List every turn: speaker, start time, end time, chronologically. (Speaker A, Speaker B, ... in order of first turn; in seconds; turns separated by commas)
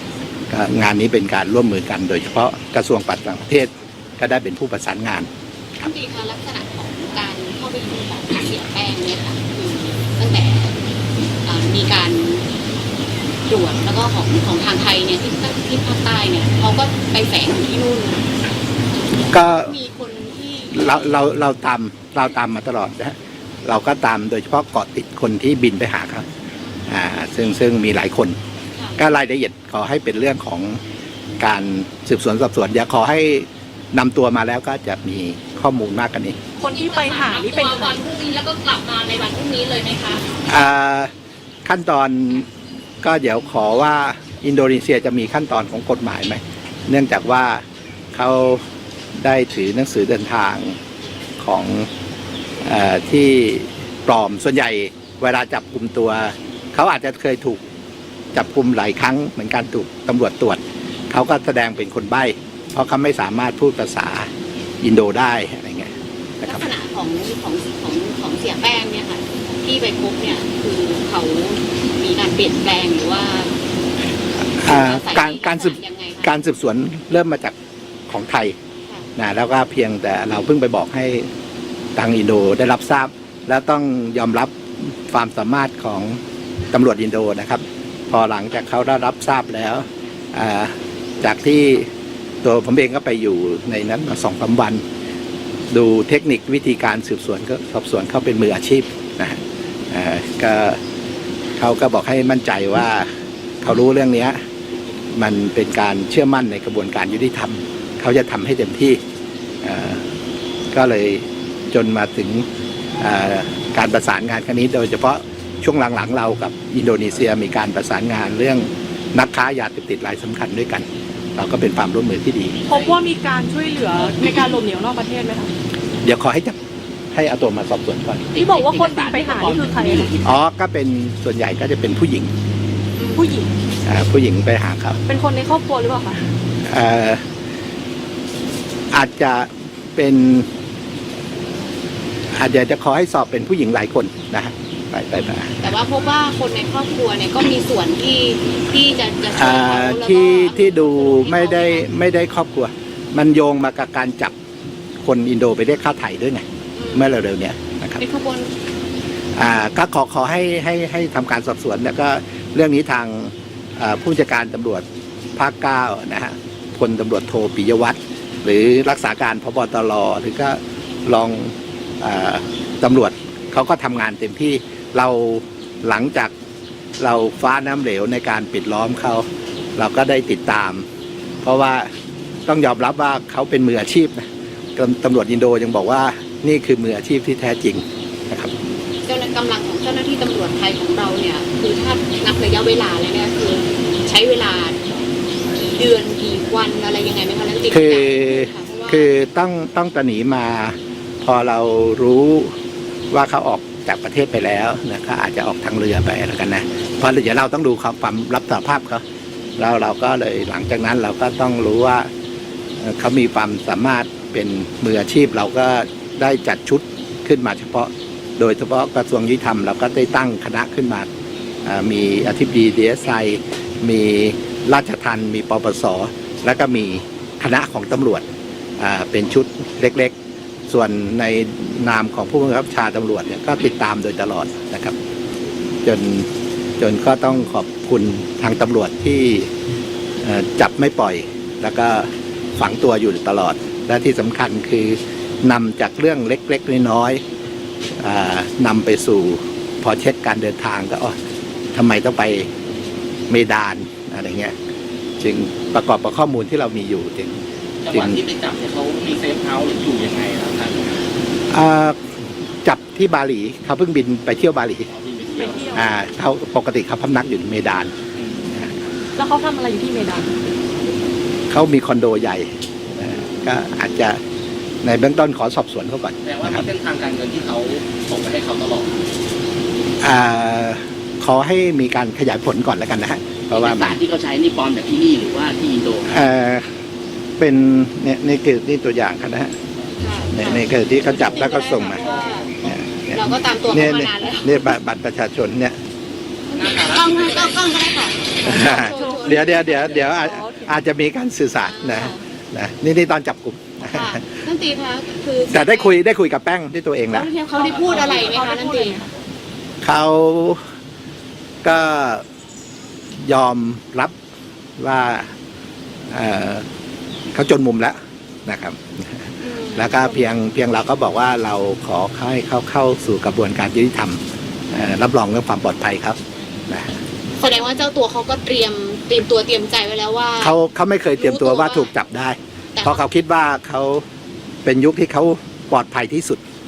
Speaker A: 0.5-5.3, Speaker B: 5.8-10.8, Speaker B: 11.4-12.4, Speaker B: 13.5-18.2, Speaker B: 19.3-21.3, Speaker A: 19.3-19.7, Speaker A: 20.7-26.2, Speaker A: 26.9-28.4, Speaker B: 28.8-29.0, Speaker A: 29.0-30.8, Speaker A: 31.4-36.4, Speaker C: 36.6-38.0, Speaker B: 36.6-40.2, Speaker D: 37.5-37.9, Speaker A: 40.4-41.1, Speaker A: 41.6-42.5, Speaker A: 43.0-48.6, Speaker A: 49.1-50.8, Speaker A: 51.4-51.9, Speaker A: 52.6-57.6, Speaker A: 58.3-64.3, Speaker A: 64.8-65.9, Speaker A: 66.4-66.7, Speaker B: 66.5-73.5, Speaker A: 74.5-77.5, Speaker B: 74.6-76.3, Speaker A: 78.1-78.5, Speaker A: 79.2-81.3, Speaker A: 82.0-86.2, Speaker A: 86.7-91.9, Speaker A: 92.4-94.8, Speaker A: 95.7-100.8, Speaker A: 101.6-103.1, Speaker A: 103.6-104.4, Speaker A: 105.1-109.0, Speaker A: 109.6-110.0, Speaker A: 110.7-112.5, Speaker A: 113.0-122.6, Speaker C: 122.7-125.5, Speaker A: 126.0-126.6, Speaker A: 127.1-128.4, Speaker D: 128.3-130.2, Speaker C: 128.4-130.1, Speaker A: 130.2-132.3, Speaker B: 133.0-133.4, Speaker C: 133.1-133.5, Speaker A: 133.8-135.0, Speaker C: 135.0-136.3, Speaker A: 136.6-137.2, Speaker A: 138.9-140.5, Speaker A: 142.3-145.7, Speaker B: 145.6-151.9, Speaker A: 149.3-154.3, Speaker A: 155.0-158.0, Speaker B: 156.8-157.1, Speaker B: 158.0-158.5, Speaker A: 159.3-164.8, Speaker A: 165.3-176.3, Speaker A: 177.0-179.2, Speaker A: 179.8-180.9, Speaker A: 181.4-181.9, Speaker A: 182.5-184.2, Speaker A: 184.8-188.5, Speaker B: 189.1-194.8, Speaker B: 195.5-199.1, Speaker A: 197.7-202.5, Speaker A: 203.1-209.0, Speaker A: 209.6-212.1, Speaker A: 212.8-221.1, Speaker A: 221.6-228.2, Speaker A: 228.8-230.1, Speaker A: 230.7-234.9, Speaker A: 235.8-239.5, Speaker A: 240.2-247.2, Speaker A: 248.0-251.2, Speaker A: 251.7-252.5, Speaker A: 253.3-254.5, Speaker A: 255.2-258.2, Speaker D: 257.8-261.0, Speaker A: 261.5-262.0, Speaker A: 262.6-264.9, Speaker D: 264.9-265.9, Speaker C: 265.4-265.9, Speaker A: 265.7-267.9, Speaker D: 268.1-268.5, Speaker C: 269.2-270.3, Speaker A: 271.5-274.2, Speaker B: 273.2-273.6, Speaker A: 274.8-276.7, Speaker D: 276.2-279.0, Speaker A: 280.0-284.0, Speaker D: 283.5-286.1, Speaker A: 286.1-286.7, Speaker A: 287.4-289.5, Speaker B: 290.0-292.5, Speaker A: 290.3-292.0, Speaker D: 292.0-292.4, Speaker A: 292.6-295.8, Speaker B: 293.1-294.8, Speaker D: 296.5-297.6, Speaker B: 296.5-300.0, Speaker A: 298.4-304.3, Speaker C: 298.4-300.7, Speaker D: 299.7-300.2, Speaker B: 301.6-302.1, Speaker B: 303.9-305.9, Speaker A: 305.5-307.3, Speaker C: 307.1-309.1, Speaker B: 307.5-309.0, Speaker D: 307.8-308.3, Speaker A: 309.8-310.6, Speaker A: 311.6-312.2, Speaker A: 313.2-314.1, Speaker A: 314.8-315.3, Speaker A: 316.1-316.6, Speaker A: 317.3-327.0, Speaker B: 319.4-320.3, Speaker B: 327.4-330.6, Speaker A: 330.4-334.0, Speaker B: 331.1-331.9, Speaker B: 332.8-333.0, Speaker A: 334.6-336.4